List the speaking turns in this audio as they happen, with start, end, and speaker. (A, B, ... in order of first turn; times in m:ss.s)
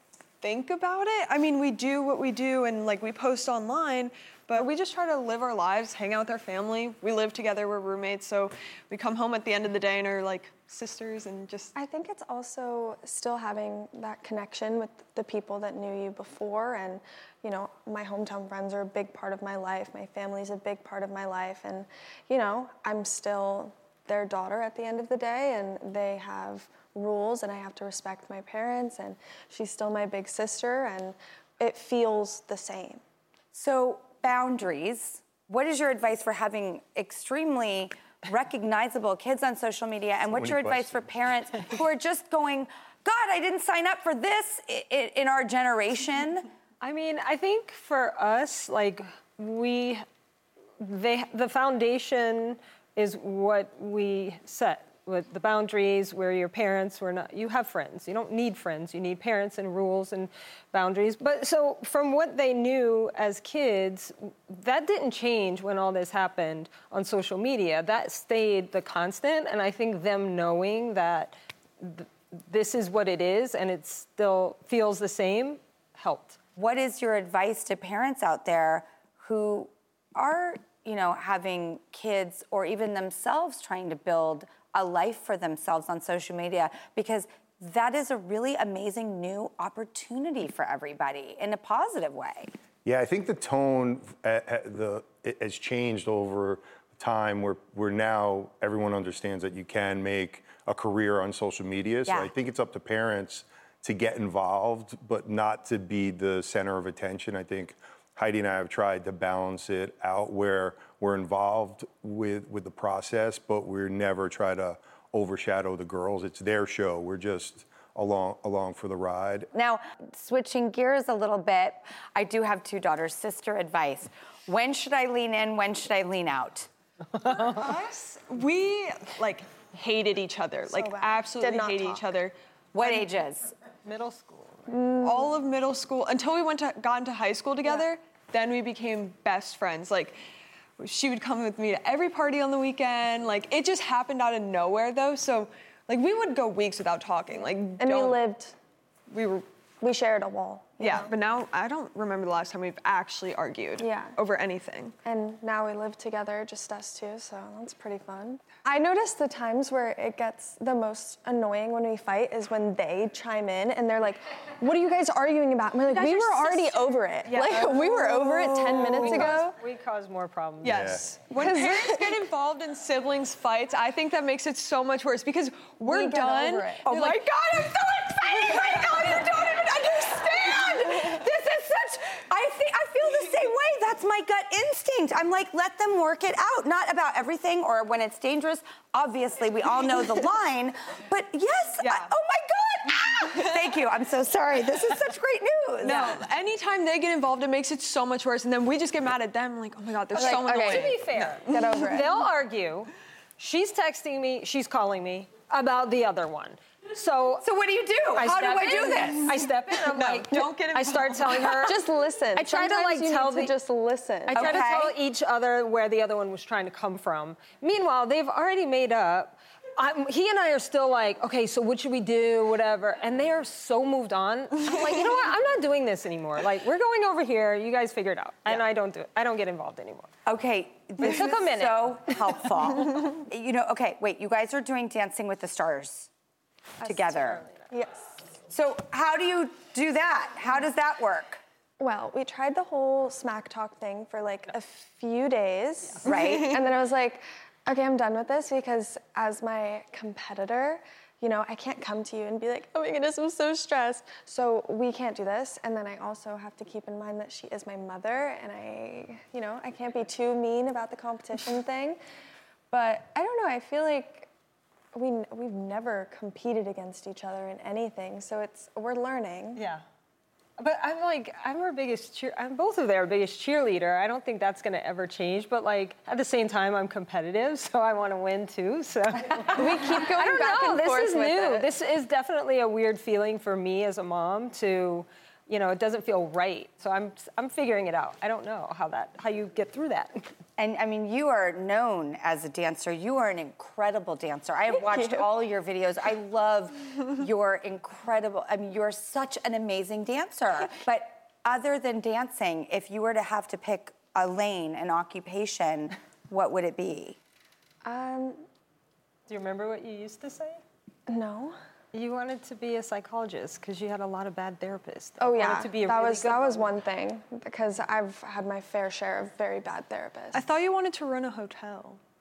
0:00.4-0:11.7 A
0:11.7-0:33.0 B
0:33.5-0:46.4 C
0:40.3-0:41.1 D
0:46.8-0:50.0 E
0:50.8-1:16.4 E
1:16.6-1:32.5 C
1:32.8-1:59.5 D
1:42.0-1:42.3 C
1:59.5-2:06.7 C
2:07.2-2:13.0 A
2:10.7-2:12.0 B
2:12.7-2:13.5 C
2:13.8-2:14.8 E
2:14.7-2:15.3 B
2:15.0-2:20.2 A
2:20.8-2:28.2 A
2:27.8-2:28.5 B
2:29.1-2:29.4 A
2:29.8-2:31.1 B
2:30.8-2:34.9 A
2:33.8-2:34.2 B
2:35.0-2:49.6 B
2:45.9-2:49.5 A
2:48.7-2:51.0 E
2:50.6-3:01.2 A
2:50.6-2:51.0 D
2:51.3-2:52.2 B
2:55.9-2:57.2 B
2:58.2-3:16.2 C
3:11.8-3:12.1 A
3:15.8-3:22.0 A
3:20.1-3:22.9 E
3:20.1-3:20.8 B
3:20.2-3:20.7 C
3:21.5-3:22.2 B
3:23.4-3:27.4 E
3:27.4-3:29.3 C
3:28.1-3:31.8 E
3:29.3-3:31.7 A
3:31.6-3:34.6 B
3:32.3-3:33.5 E
3:34.3-3:50.1 E
3:34.3-3:35.0 C
3:50.2-3:56.1 C
3:51.0-3:52.1 E
3:56.8-3:57.4 C
3:57.0-3:57.6 E
3:57.7-3:58.0 B
3:58.5-4:01.4 C
4:01.8-4:22.0 B
4:06.0-4:06.5 C
4:06.1-4:06.6 A
4:22.7-4:24.3 B
4:24.9-4:29.6 B
4:29.6-4:29.8 E
4:30.6-4:50.2 E
4:39.5-4:41.7 B
4:50.6-5:07.2 C
5:07.8-5:08.4 B
5:09.3-5:10.6 E
5:11.1-5:11.6 B
5:11.9-5:16.8 E
5:15.2-5:20.5 B
5:20.3-5:22.0 A